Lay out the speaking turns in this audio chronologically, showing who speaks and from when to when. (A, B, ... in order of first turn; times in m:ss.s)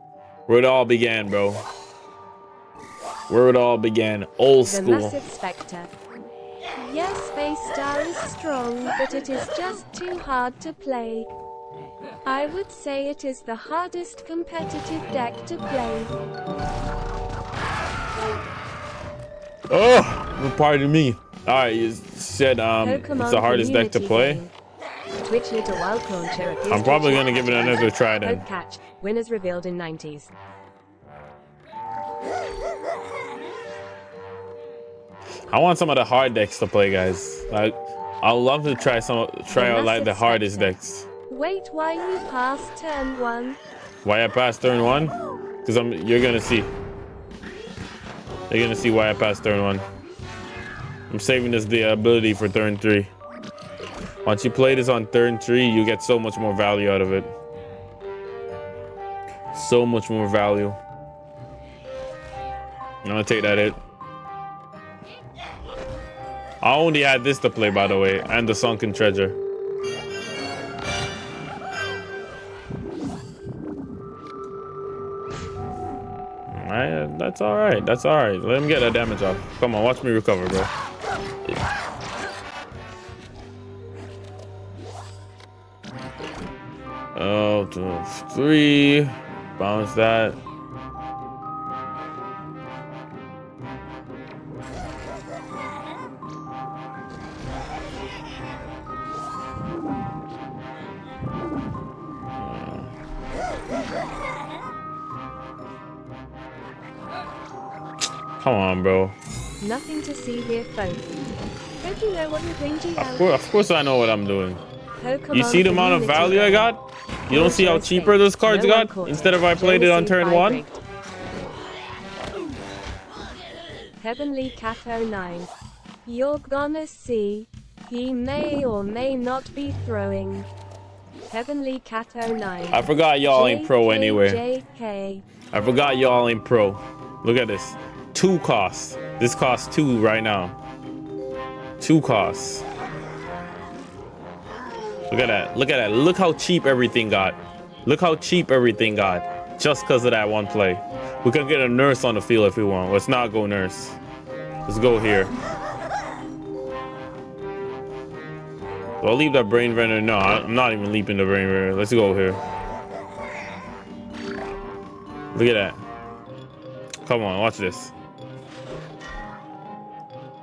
0:00.5-0:01.6 A
0:03.3-0:05.2 A
0:04.6-0:05.9 B
0:06.8-0:11.3 B
0:12.2-0:16.1 B
0:19.7-0:24.4 A
0:22.8-0:24.5 B
0:25.2-0:30.3 B
0:26.7-0:28.4 A
0:35.5-0:41.1 A
0:39.5-0:40.7 B
0:41.3-0:43.6 B
0:44.0-0:46.7 A
0:48.5-0:49.8 A
0:51.1-0:53.1 A
0:54.2-0:57.3 A
0:59.5-1:00.8 A
1:03.0-1:03.8 A
1:06.6-1:09.4 A
1:16.5-1:20.7 A
1:27.1-1:30.4 A
1:42.4-1:42.9 A
1:48.4-1:49.1 A
1:49.6-1:51.1 B
1:51.8-1:53.3 B
1:53.0-1:54.6 A
1:55.0-1:56.7 B
1:55.3-2:00.6 A
1:57.3-2:00.8 B
2:04.0-2:05.5 B
2:06.0-2:10.5 B
2:11.3-2:15.2 B
2:12.7-2:14.4 A
2:15.5-2:20.5 A
2:21.8-2:22.6 A
2:25.1-2:34.0 A
2:34.7-2:35.3 A
2:39.0-2:42.4 A
2:45.3-2:45.8 A
2:47.0-2:47.9 A